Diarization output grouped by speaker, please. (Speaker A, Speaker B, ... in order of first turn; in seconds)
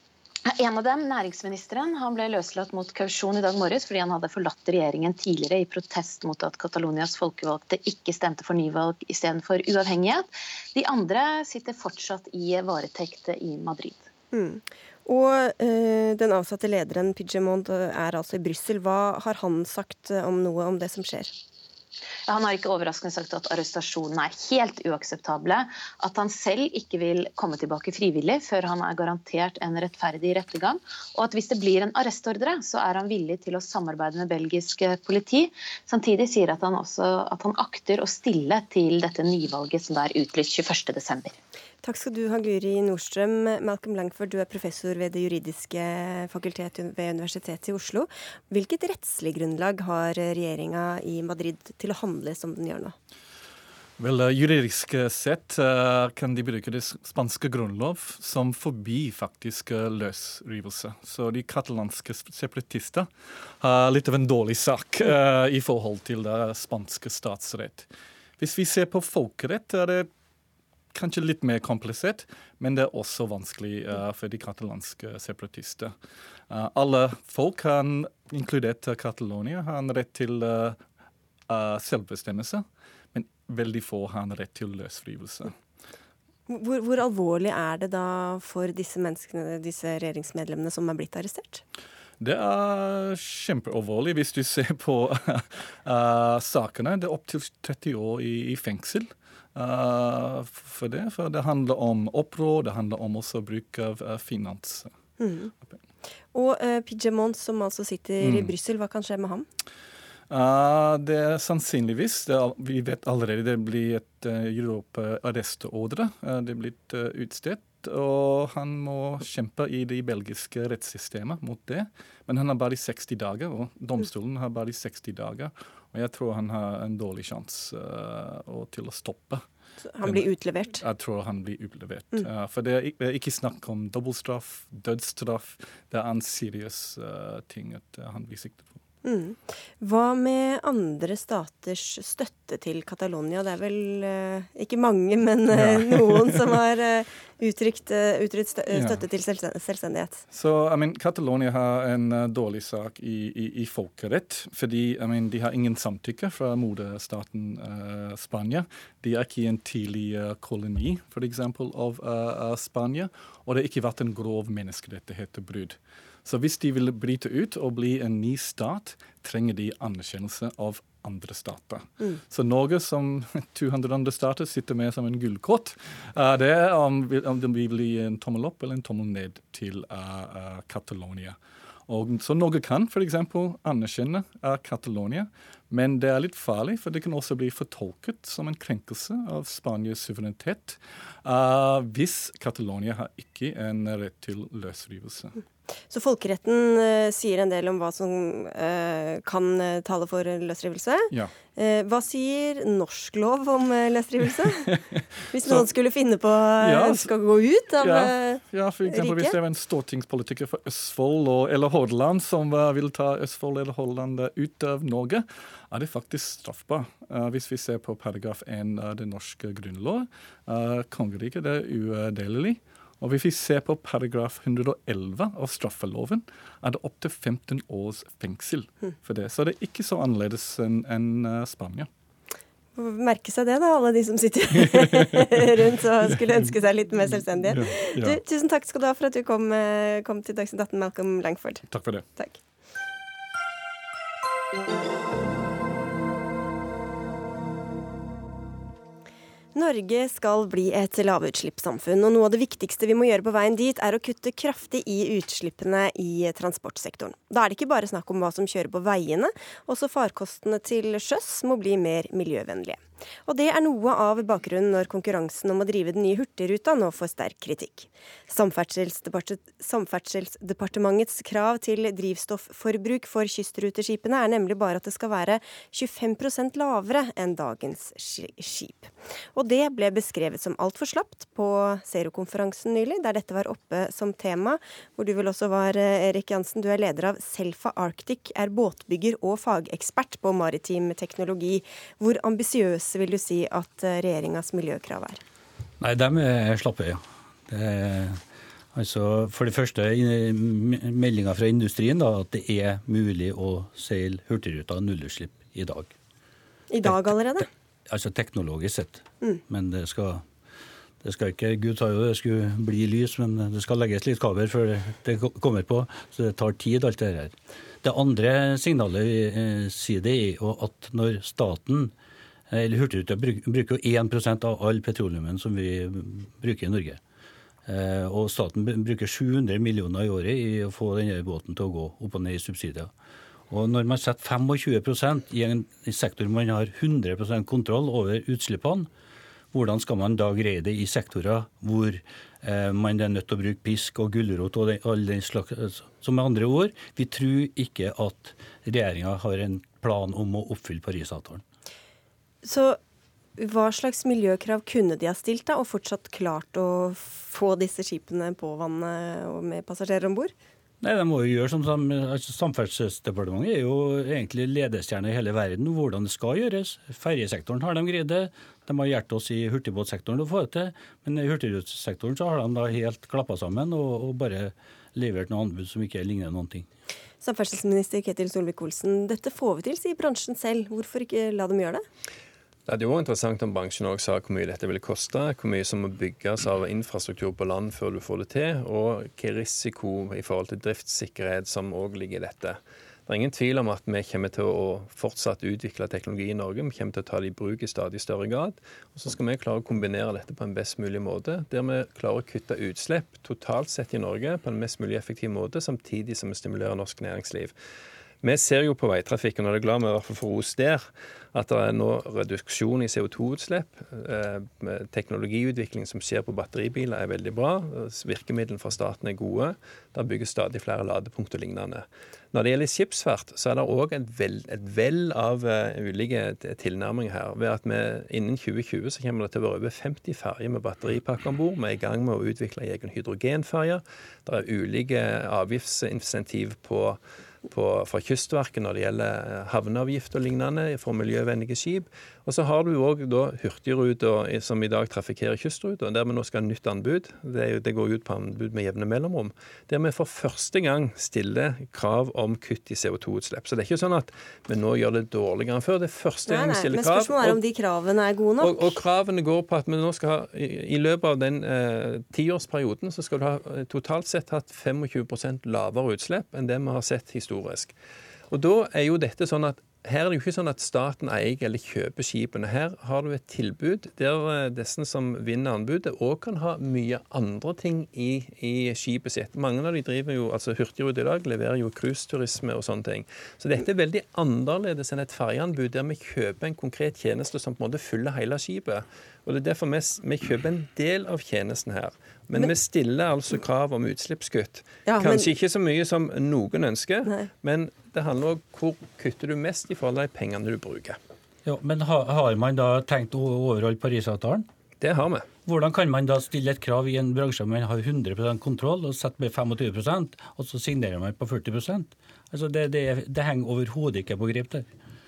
Speaker A: 0.5-14.1, 22.3-41.4
Speaker B: 14.3-21.3, 41.8-53.0, 86.5-91.6, 105.2-105.5, 106.3-109.5, 129.8-130.8, 139.0-150.2, 195.9-204.7, 205.3-209.4, 232.8-241.7, 249.6-295.2, 306.7-307.5, 352.4-352.8, 353.4-360.3, 377.2-381.8, 456.3-458.8, 494.9-495.3
Speaker C: 54.0-70.1, 70.9-75.9, 76.5-80.8, 81.5-85.6, 92.2-104.9, 108.2-108.5, 110.3-129.4, 130.0-138.8, 145.5-146.6, 148.7-149.1, 150.3-195.3, 204.3-205.7, 206.6-207.1, 207.8-231.9, 234.6-235.5, 236.0-238.2, 241.7-242.1
Speaker D: 295.8-298.2, 298.7-305.9, 306.8-310.2, 311.0-321.9, 322.5-327.0, 327.7-332.9, 333.5-338.9, 339.5-351.4, 360.8-376.7, 501.5-504.5, 505.4-514.7
Speaker E: 382.7-407.6, 408.2-457.4, 458.4-467.8, 468.3-501.0, 504.8-505.4